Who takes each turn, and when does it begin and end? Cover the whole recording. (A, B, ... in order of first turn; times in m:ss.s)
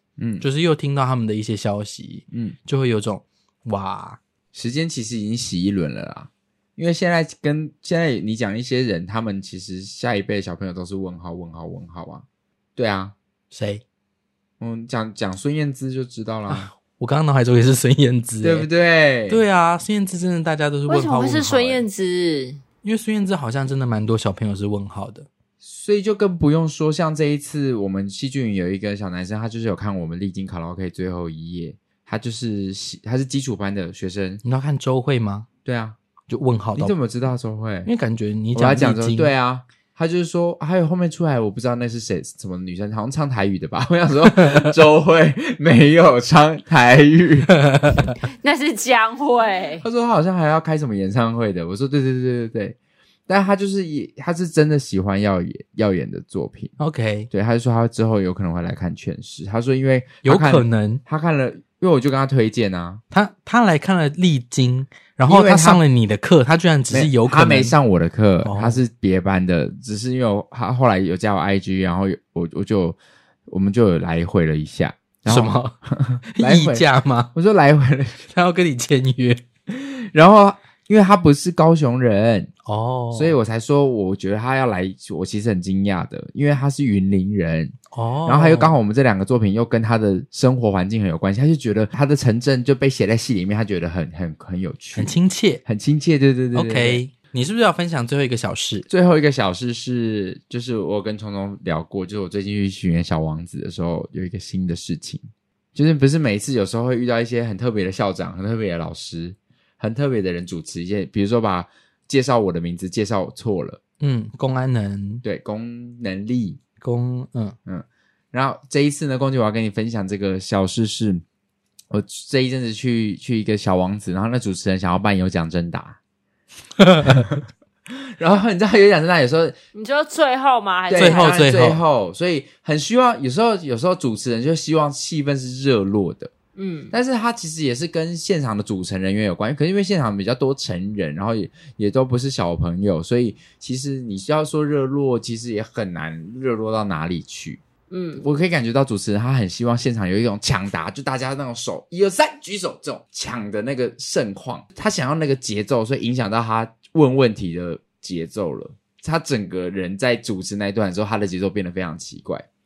0:00.2-0:00.4 A
0:00.4-0:04.2 B
0:02.3-0:02.6 A
0:04.5-0:12.2 A
0:12.8-0:13.1 A
0:13.5-0:13.8 B
0:14.6-0:16.7 A
0:16.5-0:18.7 B
0:18.4-0:19.4 A
0:19.3-0:21.8 B
0:20.9-0:22.6 C
0:22.8-0:25.3 B
0:25.6-0:34.4 A
0:34.4-0:35.5 B
0:35.6-0:36.0 A
0:36.3-0:36.9 B
0:36.8-0:37.9 A
0:37.8-0:39.3 B
0:38.5-0:47.6 A
0:47.7-0:48.0 B
0:48.4-0:49.8 C
0:49.8-0:52.8 A
0:53.3-0:56.7 A
0:56.8-0:57.3 B
0:57.3-1:03.0 A
1:00.2-1:01.0 B
1:03.1-1:07.7 B
1:05.3-1:05.8 A
1:06.9-1:18.2 A
1:08.4-1:08.8 B
1:15.3-1:15.7 B
1:16.3-1:17.3 B
1:18.3-1:19.4 B
1:19.7-1:22.5 A
1:22.6-1:23.3 B
1:23.1-1:37.0 A
1:27.9-1:28.7 B
1:35.0-1:35.6 B
1:36.5-1:38.9 B
1:38.9-1:53.8 A
1:54.0-1:55.2 B
1:55.2-1:56.6 A
1:56.8-1:57.6 B
1:57.6-2:01.2 A
2:01.9-2:06.0 A
2:06.8-2:07.1 B
2:07.1-2:09.6 A
2:09.7-2:11.3 C
2:10.9-2:16.3 A
2:11.0-2:11.8 B
2:16.6-2:16.9 C
2:16.9-2:27.6 A
2:27.9-2:28.2 C
2:28.2-2:42.5 A